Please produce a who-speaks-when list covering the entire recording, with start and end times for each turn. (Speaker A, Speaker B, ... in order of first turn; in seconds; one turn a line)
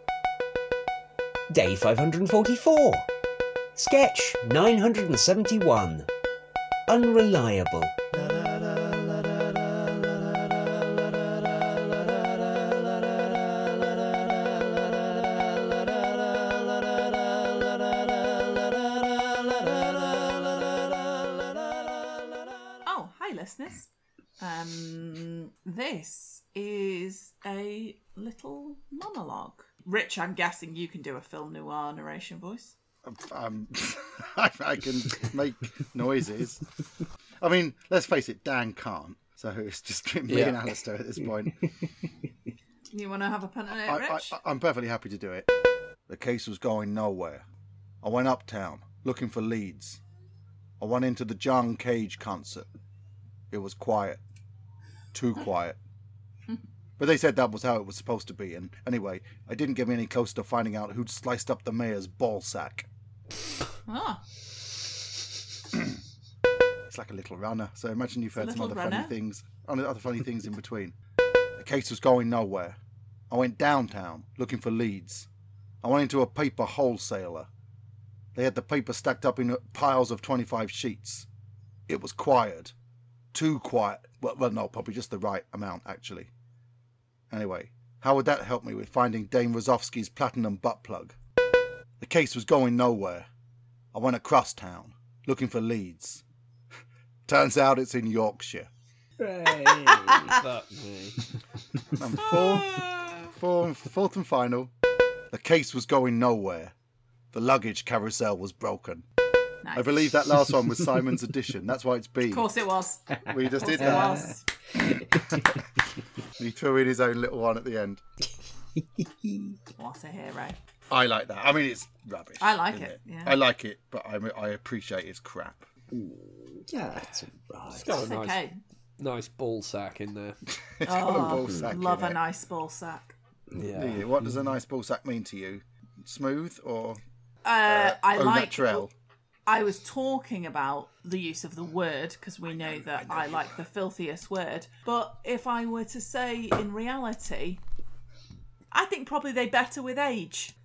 Speaker A: 1.5-3.1
Speaker A: 3.8-6.1
Speaker A: 6.9-8.0
Speaker B: 22.9-32.8
Speaker C: 33.0-36.6
Speaker C: 37.4-41.6
Speaker D: 40.3-40.6
Speaker B: 42.9-44.4
Speaker C: 43.9-45.5
Speaker C: 46.1-47.5
Speaker C: 48.0-50.0
Speaker C: 50.8-52.7
Speaker C: 53.5-54.2
Speaker C: 55.1-55.8
Speaker C: 57.0-62.9
Speaker B: 63.9-64.2
Speaker C: 66.9-70.9
Speaker B: 68.4-69.2
Speaker C: 71.6-72.8
Speaker C: 73.3-75.3
Speaker C: 75.8-77.5
Speaker C: 78.3-81.3
Speaker C: 81.9-82.7
Speaker C: 83.3-86.3
Speaker C: 87.3-91.2
Speaker C: 92.0-93.3
Speaker C: 93.9-96.2
Speaker C: 97.3-98.7
Speaker A: 99.2-100.3
Speaker B: 99.5-100.4
Speaker D: 100.1-101.2
Speaker C: 102.0-104.7
Speaker B: 102.2-103.3
Speaker C: 105.3-106.7
Speaker C: 107.3-109.0
Speaker B: 109.6-110.1
Speaker C: 109.8-112.5
Speaker B: 112.3-114.5
Speaker C: 113.2-114.3
Speaker A: 113.8-114.3
Speaker A: 114.9-115.4
Speaker C: 115.1-115.6
Speaker C: 116.4-118.0
Speaker A: 119.0-119.5
Speaker B: 119.8-120.6
Speaker C: 120.9-125.7
Speaker B: 122.4-123.4
Speaker A: 125.9-128.0
Speaker D: 127.7-128.4
Speaker B: 127.9-128.6
Speaker D: 129.0-130.4
Speaker C: 130.8-132.2
Speaker B: 130.8-133.2
Speaker A: 131.4-131.7
Speaker D: 133.6-134.1
Speaker C: 133.8-137.0
Speaker B: 137.4-138.9
Speaker C: 137.7-138.9
Speaker B: 139.5-147.6
Speaker C: 142.5-143.6
Speaker B: 148.7-150.5